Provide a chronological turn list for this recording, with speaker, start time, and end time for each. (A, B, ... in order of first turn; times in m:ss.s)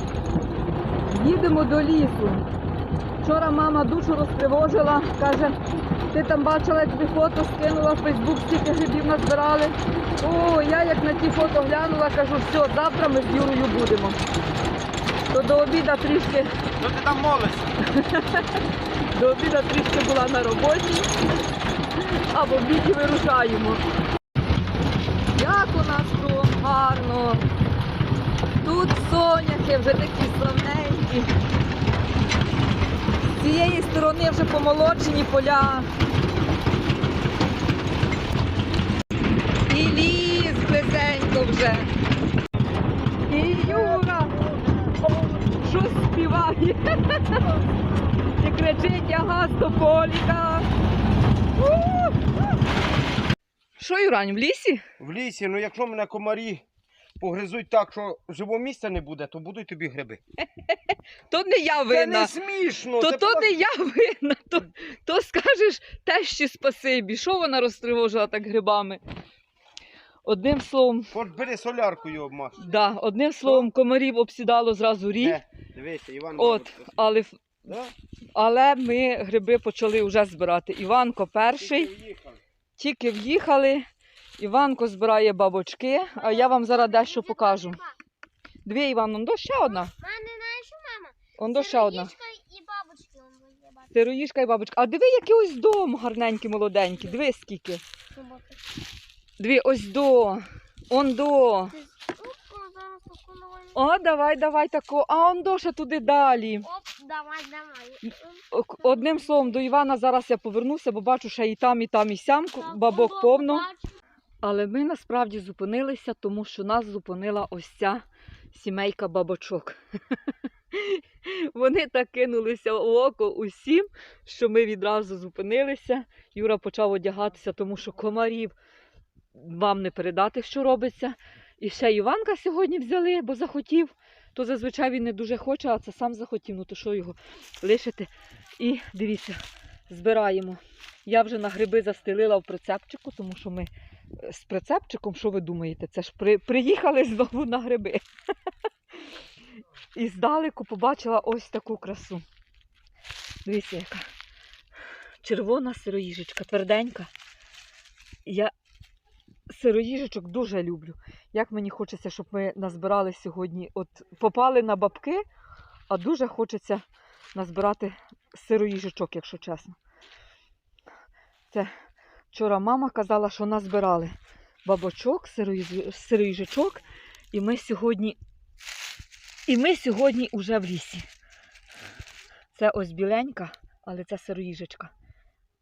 0:01.1-0:02.5 A
0:03.2-0:05.6 A
0:06.1-0:14.2 A
0:15.3-0:16.5 A
0:16.8-0:17.8 B
0:17.9-0:18.6 A
0:19.1-0:21.1 A
0:22.0-0:23.8 A
0:25.4-0:27.5 A
0:28.6-0:31.3 A
0:33.4-0:35.9 A
0:39.7-0:41.9 A
0:43.3-0:44.4 A
0:45.5-0:47.6 A
0:48.4-0:50.7 A
0:51.6-0:52.2 A
0:53.8-0:54.8 A
0:55.0-0:56.6 B
0:57.2-1:00.2 B
1:01.3-1:02.3 A
1:01.9-1:03.5 B
1:03.0-1:09.0 A
1:10.2-1:11.1 A
1:11.1-1:12.6 B
1:12.6-1:15.4 A
1:15.2-1:16.9 B
1:16.4-1:17.7 A
1:17.7-1:17.9 B
1:18.4-1:21.9 A
1:21.6-1:22.4 B
1:22.8-1:23.9 A
1:24.4-1:27.8 A
1:26.2-1:28.0 C
1:28.6-1:29.9 A
1:29.7-1:33.9 C
1:31.4-1:32.1 A
1:33.9-1:37.8 A
1:38.2-1:38.6 C
1:39.4-1:41.8 A
1:41.7-1:43.8 C
1:43.7-1:46.7 A
1:46.6-1:48.4 C
1:48.5-1:53.7 A
1:52.6-1:54.0 C
1:54.4-1:59.8 A
2:00.7-2:08.6 A
2:09.4-2:28.0 A
2:30.0-2:32.2 A
2:33.4-2:34.1 A
2:35.2-2:37.1 A
2:38.2-2:38.5 A
2:39.5-2:45.2 A
2:45.9-2:46.8 A
2:47.4-2:49.8 A
2:52.3-2:54.1 A
2:54.6-2:58.2 A
2:59.5-3:01.1 A
3:02.5-3:04.9 A